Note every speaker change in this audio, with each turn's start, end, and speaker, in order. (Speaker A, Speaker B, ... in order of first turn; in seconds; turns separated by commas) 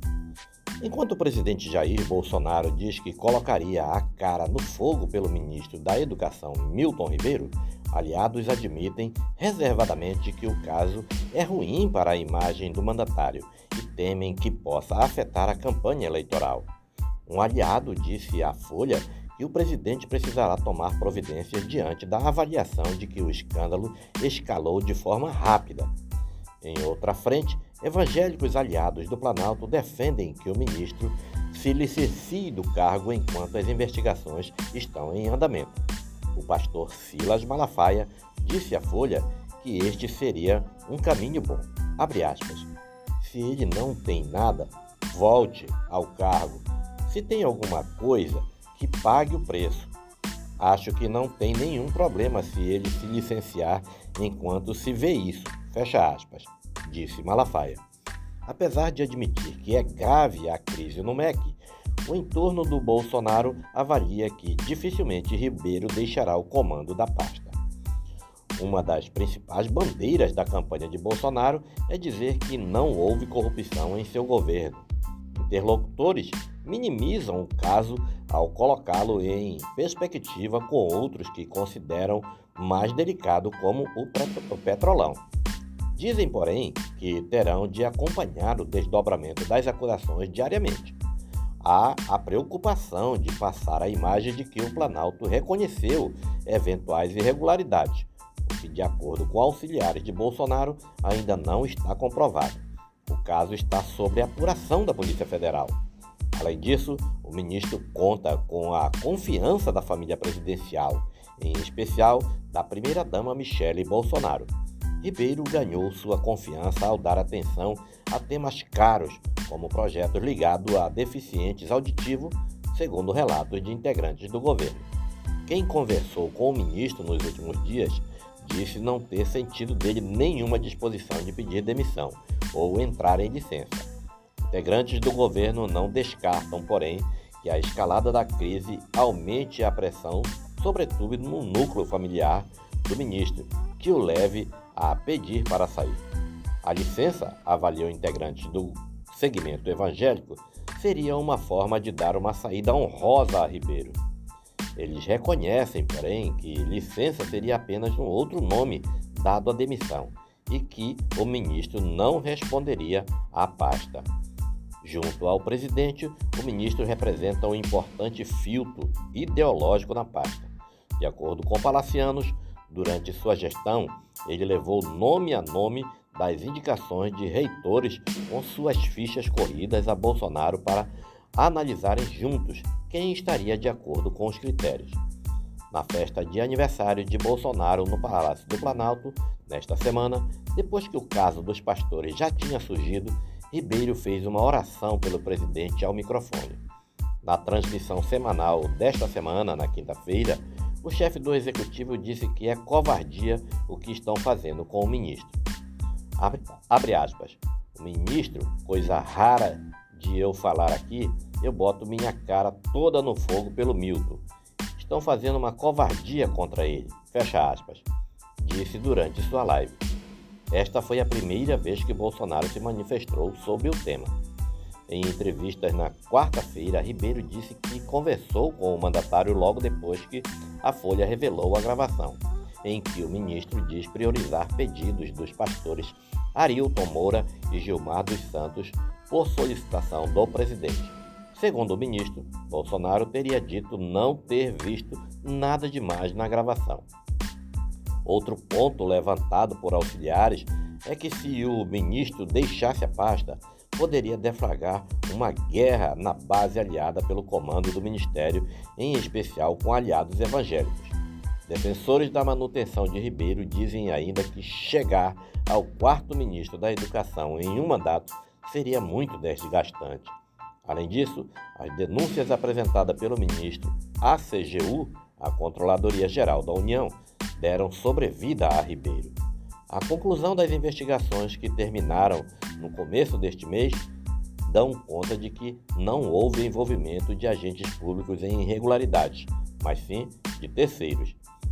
Speaker A: 0.8-16.7, Speaker A: 17.3-25.9, Speaker A: 26.6-49.9, Speaker A: 50.6-57.8, Speaker A: 58.5-67.6, Speaker A: 68.6-85.2, Speaker A: 86.0-91.0, Speaker A: 91.6-105.8, Speaker A: 106.3-124.9, Speaker A: 125.5-133.9, Speaker A: 134.5-146.1, Speaker A: 146.6-154.0, Speaker A: 154.8-164.1, Speaker A: 164.8-185.0, Speaker A: 185.7-196.6, Speaker A: 197.2-205.4, Speaker A: 206.2-217.9, Speaker A: 218.4-219.8, Speaker A: 220.5-224.2, Speaker A: 224.9-246.9, Speaker A: 248.1-279.2, Speaker A: 279.7-283.9, Speaker A: 284.4-291.2